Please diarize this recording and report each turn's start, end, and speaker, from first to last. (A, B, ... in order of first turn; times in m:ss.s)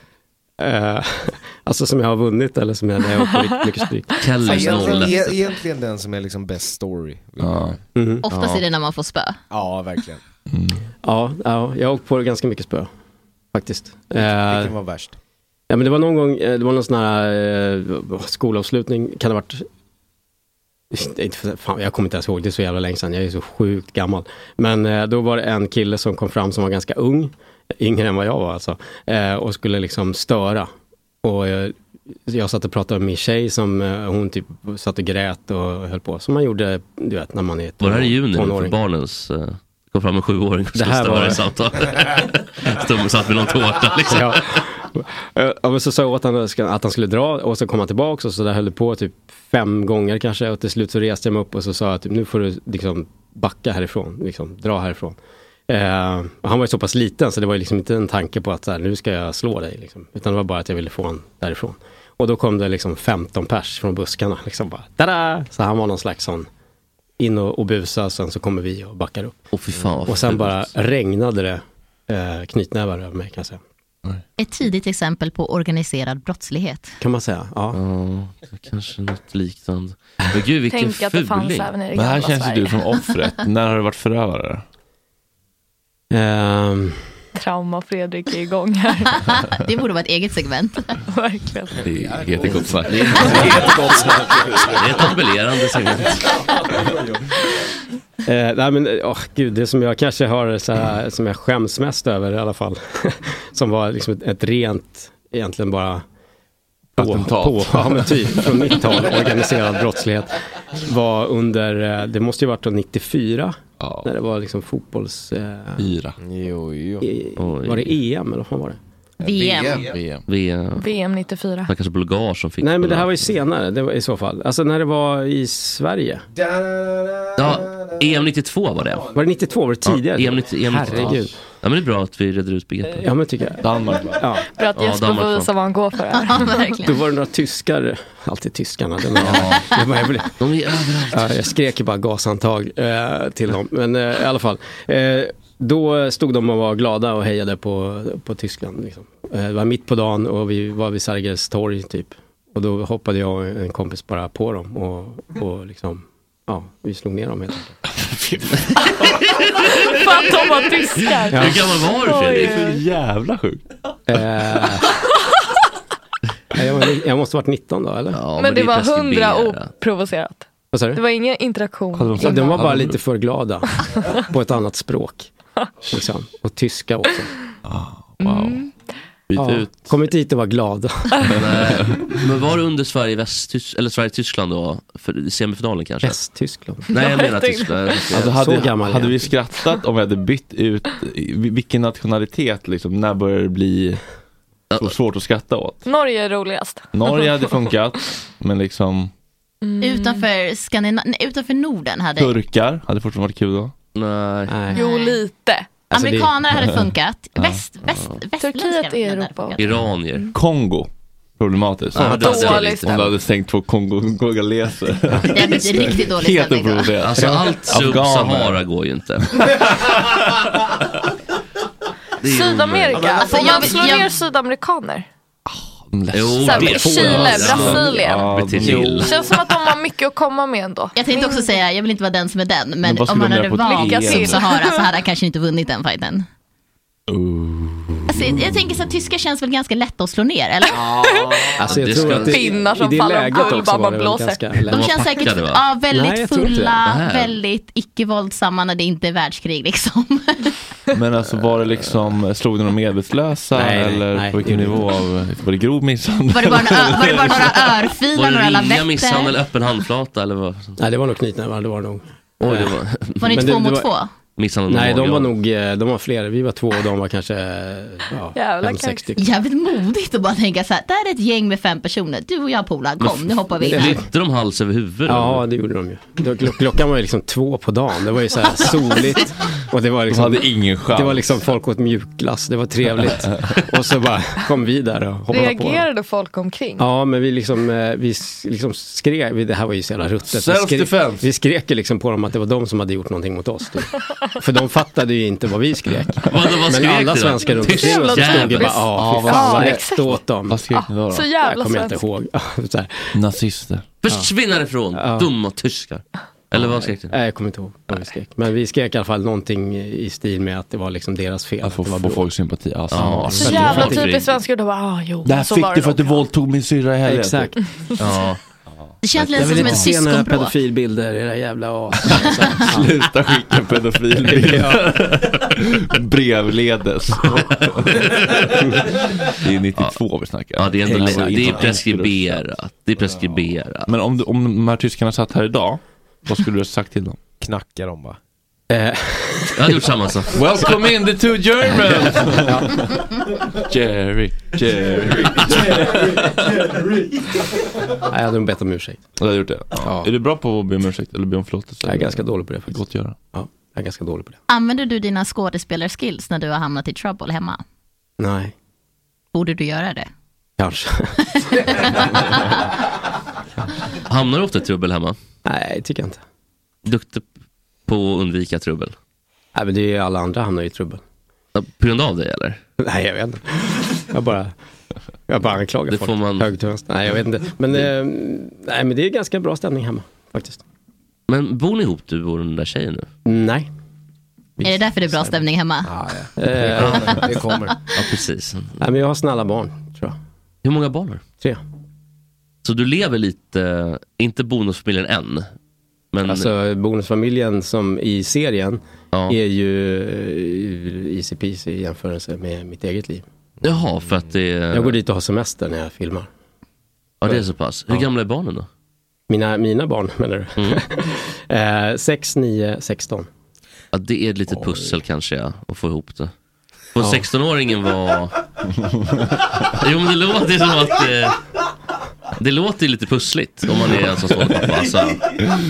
0:00.6-0:05.0 A
0:04.2-0:05.5 B
0:04.4-0:07.8 C
0:07.4-0:07.8 D
0:07.9-0:08.2 A
0:08.2-0:09.4 E
0:08.3-0:08.6 B
0:09.5-0:10.2 C
0:10.5-0:10.8 D
0:11.0-0:12.9 A
0:13.5-0:14.7 A
0:14.1-0:15.2 C
0:15.7-0:19.6 A
0:20.9-0:30.7 A
0:31.2-0:31.7 A
0:32.3-0:38.7 A
0:37.8-0:44.6 B
0:40.7-0:41.4 A
0:44.1-0:55.2 A
0:55.7-1:06.5 A
1:07.2-1:09.3 A
1:09.5-1:10.7 B
1:10.0-1:13.6 A
1:14.4-1:17.0 E
1:17.0-1:17.8 A
1:17.7-1:21.8 B
1:20.7-1:22.8 F
1:21.9-1:24.6 D
1:26.1-1:27.1 A
1:27.4-1:29.1 F
1:29.1-1:31.0 E
1:31.1-1:31.8 F
1:31.8-1:35.0 D
1:32.0-1:32.8 C
1:32.4-1:34.1 B
1:33.6-1:34.5 C
1:34.6-1:36.5 B
1:38.2-1:46.0 A
1:47.0-1:48.6 D
1:47.0-1:55.9 A
1:53.8-1:54.1 D
1:55.8-1:56.2 D
1:56.2-1:57.0 C
1:57.0-1:58.8 A
1:57.4-1:58.0 B
1:59.2-1:59.8 E
1:59.2-1:59.9 C
1:59.8-2:00.2 D
2:00.3-2:00.9 B
2:00.8-2:01.7 F
2:01.7-2:03.2 B
2:02.6-2:06.2 A
2:06.3-2:08.0 C
2:07.4-2:09.0 B
2:09.1-2:11.3 A
2:09.8-2:13.1 B
2:10.7-2:11.2 D
2:13.0-2:14.4 A
2:13.6-2:14.2 D
2:14.6-2:16.8 F
2:14.7-2:15.5 B
2:16.1-2:17.0 E
2:16.8-2:20.3 A
2:19.2-2:19.6 B
2:20.4-2:21.5 B
2:21.1-2:37.7 A
2:37.9-2:39.0 D
2:39.1-2:39.4 B
2:39.9-2:42.8 F
2:41.2-2:42.8 B
2:41.3-2:41.6 A
2:42.2-2:43.6 D
2:44.1-2:44.9 A
2:46.5-2:48.2 A
2:48.1-2:49.7 B
2:48.3-2:52.6 F
2:50.7-2:51.0 A
2:51.9-2:53.0 D
2:52.2-2:53.7 A
2:54.2-2:55.3 A
2:55.9-2:57.3 A
2:57.6-2:58.7 D
2:58.2-2:58.7 F
2:59.3-2:59.9 D
2:59.3-3:01.3 A
3:01.3-3:06.2 B
3:01.3-3:02.2 D
3:06.0-3:06.9 A
3:06.9-3:08.4 B
3:06.9-3:08.1 F
3:08.1-3:14.0 D
3:08.2-3:09.3 A
3:14.8-3:15.8 D
3:15.8-3:17.5 F
3:16.9-3:19.1 D
3:19.6-3:20.3 F
3:19.8-3:22.3 E
3:22.2-3:23.7 D
3:23.9-3:24.7 B
3:24.5-3:24.8 A
3:24.7-3:25.2 E
3:24.7-3:25.7 F
3:25.9-3:26.3 A
3:25.9-3:29.6 E
3:27.4-3:27.6 D
3:27.9-3:28.2 B
3:28.4-3:29.6 F
3:29.6-3:30.3 B
3:30.3-3:38.6 D
3:31.9-3:33.2 B
3:32.1-3:33.0 F
3:35.2-3:36.9 E
3:36.9-3:39.7 B
3:39.4-3:39.6 D
3:42.2-3:43.6 B
3:42.2-3:45.1 F
3:43.3-3:44.1 E
3:45.5-3:49.4 D
3:46.1-3:49.2 B
3:46.4-3:48.3 F
3:48.9-3:51.6 F
3:50.9-3:56.2 E
3:52.8-3:54.4 D
3:53.6-3:54.9 F
3:57.1-3:58.5 D
3:58.1-4:00.9 E
4:00.6-4:01.5 F
4:01.6-4:05.0 A
4:01.6-4:02.6 B
4:01.8-4:02.2 D
4:02.2-4:04.5 F
4:03.3-4:03.6 E
4:04.6-4:05.7 B
4:04.7-4:10.6 E
4:05.9-4:06.8 A
4:06.8-4:07.4 B
4:10.9-4:17.8 D
4:13.5-4:14.9 A
4:16.3-4:19.3 E
4:18.1-4:20.8 B
4:20.8-4:22.7 A
4:22.4-4:23.5 B
4:23.2-4:24.1 E
4:23.3-4:23.9 A
4:24.4-4:25.3 B
4:24.7-4:29.3 A
4:28.3-4:29.1 F
4:29.2-4:34.0 E
4:33.0-4:35.4 B
4:33.6-4:34.0 A
4:35.1-4:45.8 A
4:40.1-4:41.4 D
4:45.3-4:46.9 F
4:46.8-5:00.6 A
4:50.3-4:51.3 D
4:56.2-4:58.9 B
4:57.6-5:00.2 F
4:58.9-5:01.3 D
5:00.7-5:02.0 F
5:01.4-5:03.2 A
5:03.1-5:03.9 D
5:04.0-5:07.2 B
5:04.9-5:05.3 A
5:06.5-5:12.3 A
5:11.6-5:14.0 D
5:12.9-5:14.4 B
5:13.3-5:14.0 A
5:13.4-5:16.3 F
5:15.2-5:17.5 D
5:17.0-5:17.5 A
5:18.0-5:18.4 B
5:19.0-5:20.5 E
5:19.2-5:23.1 A
5:19.4-5:19.8 D
5:22.6-5:28.5 D
5:24.2-5:25.0 A
5:28.0-5:28.5 B
5:29.3-5:32.4 D
5:30.5-5:33.9 B
5:30.8-5:31.6 A
5:33.9-5:37.2 D
5:37.4-5:38.2 C
5:38.7-5:39.8 A
5:39.5-5:40.4 B
5:40.3-5:42.9 D
5:42.3-5:42.8 A
5:43.5-5:46.9 D
5:48.1-5:49.0 A
5:49.2-5:53.2 D
5:49.8-5:50.1 A
5:51.8-5:52.8 A
5:53.3-5:54.4 A
5:54.5-5:57.6 E
5:58.2-5:58.5 A
5:59.3-6:00.1 E
6:00.6-6:01.2 A
6:04.0-6:05.2 B
6:05.4-6:06.2 A
6:06.8-6:07.2 B
6:07.9-6:08.9 B
6:09.5-6:11.0 A
6:11.5-6:12.6 B
6:12.8-6:14.5 A
6:15.3-6:20.6 A
6:15.9-6:16.5 B
6:21.3-6:23.1 B
6:23.2-6:23.7 A
6:24.6-6:25.4 A
6:24.6-6:25.9 E
6:25.8-6:27.8 C
6:26.4-6:27.3 A
6:27.9-6:28.8 B
6:28.8-6:30.2 A
6:30.6-6:31.2 B
6:32.6-6:35.5 B
6:36.1-6:36.5 B
6:36.2-6:43.2 A
6:39.1-6:39.4 B
6:43.6-6:45.0 B
6:44.7-6:46.3 A
6:47.2-6:48.7 B
6:49.3-6:53.3 A
6:50.6-6:50.8 B
6:53.9-6:56.3 B
6:56.9-6:58.4 B
6:57.0-6:57.2 A
6:59.7-7:01.4 B
7:02.4-7:05.4 B